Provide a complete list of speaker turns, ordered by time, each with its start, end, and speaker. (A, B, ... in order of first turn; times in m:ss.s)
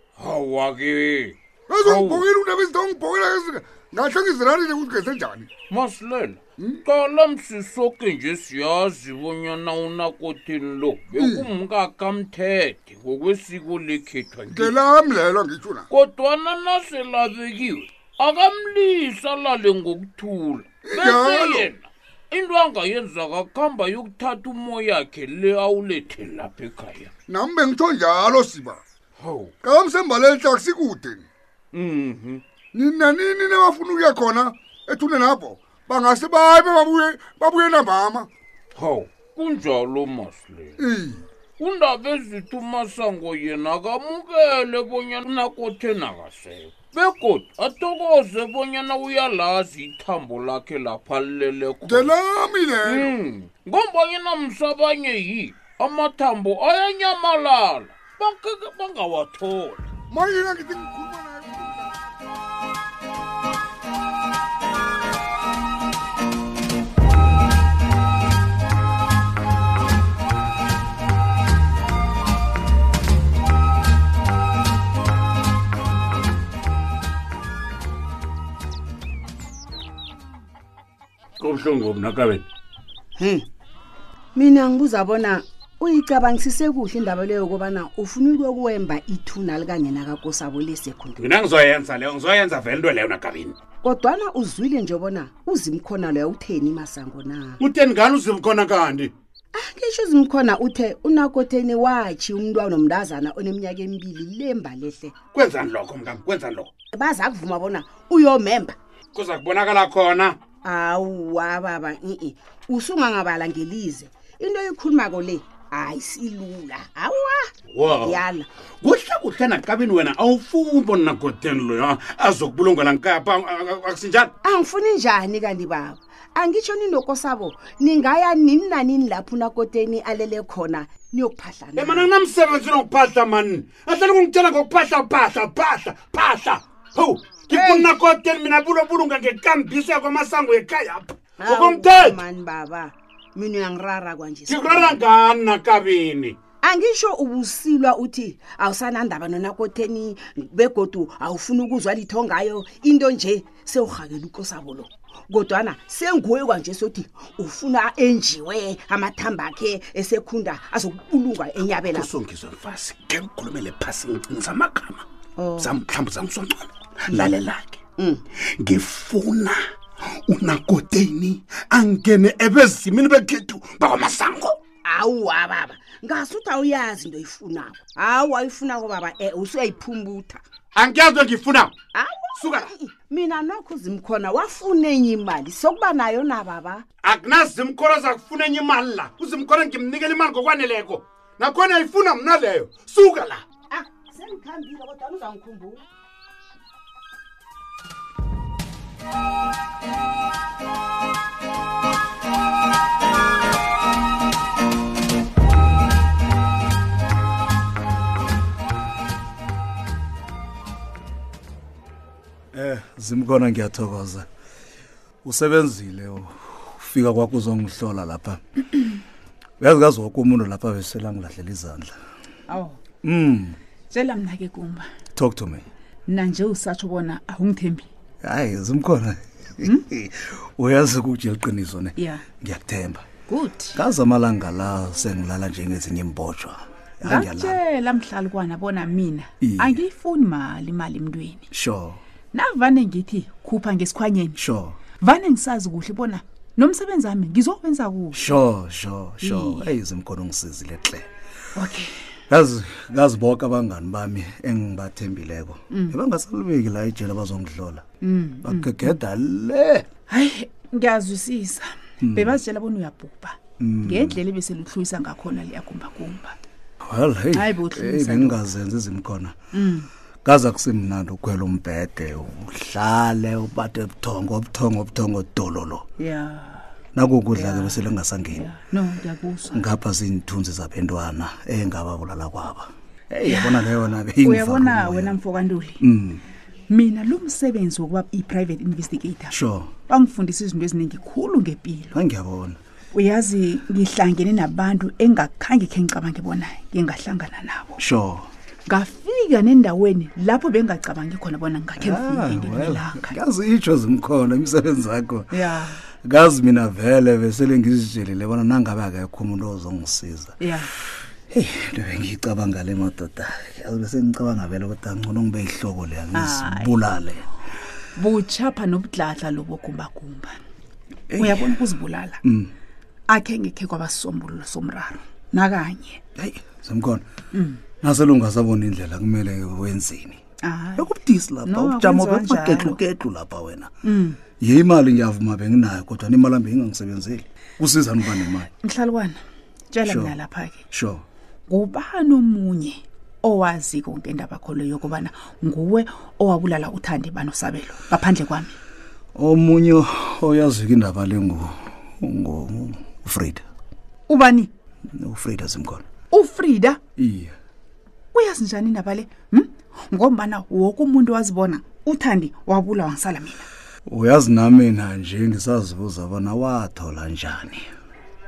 0:00.2-0:02.3 A
0:01.7-0:05.5 B
0:05.7-0:14.7 A
0:11.2-0:11.5 B
0:14.5-0:15.8 B
0:15.9-0:27.1 A
0:20.8-0:21.7 B
0:27.3-0:28.8 B
0:29.2-0:29.5 A
0:29.6-0:31.2 B
0:31.7-0:32.4 A
0:32.7-0:38.3 B
0:38.8-0:40.8 A
0:40.8-0:41.2 B
0:41.6-0:52.1 A
0:51.8-0:53.1 B
0:52.8-0:59.9 A
1:00.1-1:02.0 B
1:21.4-1:22.4 C
1:23.2-1:23.4 D
1:24.3-1:31.2 D
1:31.2-1:33.6 C
1:33.8-1:37.5 D
1:37.6-1:39.1 C
1:39.5-1:45.1 D
1:45.3-1:46.7 C
1:46.9-1:48.8 D
1:49.1-1:50.4 C
1:50.6-1:57.4 D
1:57.7-2:04.3 C
1:58.1-1:58.4 D
2:04.4-2:12.1 D
2:11.8-2:22.2 C
2:21.4-2:24.9 D
2:24.5-2:26.4 C
2:26.6-2:42.0 D
2:41.8-2:45.0 C
2:45.6-2:47.8 C
2:48.6-2:49.6 C
2:50.3-2:54.6 C
2:54.9-3:00.4 D
3:00.7-3:01.8 C
3:02.0-3:06.8 D
3:02.4-3:02.7 C
3:07.0-3:13.4 C
3:13.7-3:15.8 D
3:32.5-3:34.2 E
3:35.2-3:38.4 E
3:39.6-3:41.9 E
3:42.5-3:42.8 F
3:43.0-3:43.6 E
3:43.9-3:44.9 F
3:45.1-3:45.7 E
3:46.1-3:47.9 F
3:48.2-3:53.0 E
3:52.0-3:52.2 F
3:53.3-3:53.8 F
3:53.7-3:57.6 E
3:57.0-4:01.5 F
3:59.4-3:59.8 E
4:01.5-4:02.0 E
4:02.3-4:04.4 F
4:04.4-4:04.8 E
4:05.0-4:08.2 F
4:08.1-4:11.0 E
4:09.2-4:09.7 F
4:11.5-4:11.9 F
4:12.3-4:17.8 E
4:15.7-4:16.0 F
4:18.0-4:18.7 F
4:18.4-4:19.8 E
4:20.1-4:26.4 F
4:22.0-4:22.4 E
4:23.6-4:24.2 E
4:26.8-4:29.3 E
4:27.3-4:28.4 F
4:29.5-4:29.9 F
4:30.2-4:35.8 E
4:36.0-4:36.6 F
4:36.9-4:38.5 E
4:37.3-4:37.8 F
4:38.3-4:39.6 F
4:39.5-4:45.2 E
4:43.2-4:43.6 F
4:44.2-4:45.8 F
4:45.8-4:46.2 E
4:46.7-4:49.3 F
4:49.3-4:49.7 E
4:49.9-4:52.0 F
4:51.9-4:52.6 E
4:52.9-4:57.8 F
4:57.8-4:58.3 E
4:58.7-5:03.2 F
5:01.8-5:05.3 E
5:05.3-5:05.8 F
5:06.0-5:10.3 E
5:10.4-5:10.7 F
5:11.3-5:17.2 E
5:16.1-5:16.7 F
5:18.0-5:20.4 F
5:21.1-5:21.5 E
5:21.2-5:22.2 F
5:22.2-5:22.5 E
5:23.1-5:26.0 F
5:26.2-5:27.0 E
5:27.3-5:27.6 F
5:27.8-5:30.2 E
5:30.4-5:30.9 F
5:30.8-5:33.7 E
5:31.4-5:32.8 F
5:33.8-5:34.2 F
5:34.4-5:38.5 E
5:38.6-5:39.2 F
5:39.7-5:40.6 F
5:39.8-5:40.1 E
5:40.7-5:41.0 E
5:41.5-5:48.5 F
5:49.1-5:53.4 E
5:54.1-5:54.5 F
5:55.0-5:55.8 E
5:56.1-5:56.8 F
5:57.0-5:57.3 E
5:58.1-6:03.5 F
6:03.8-6:07.7 E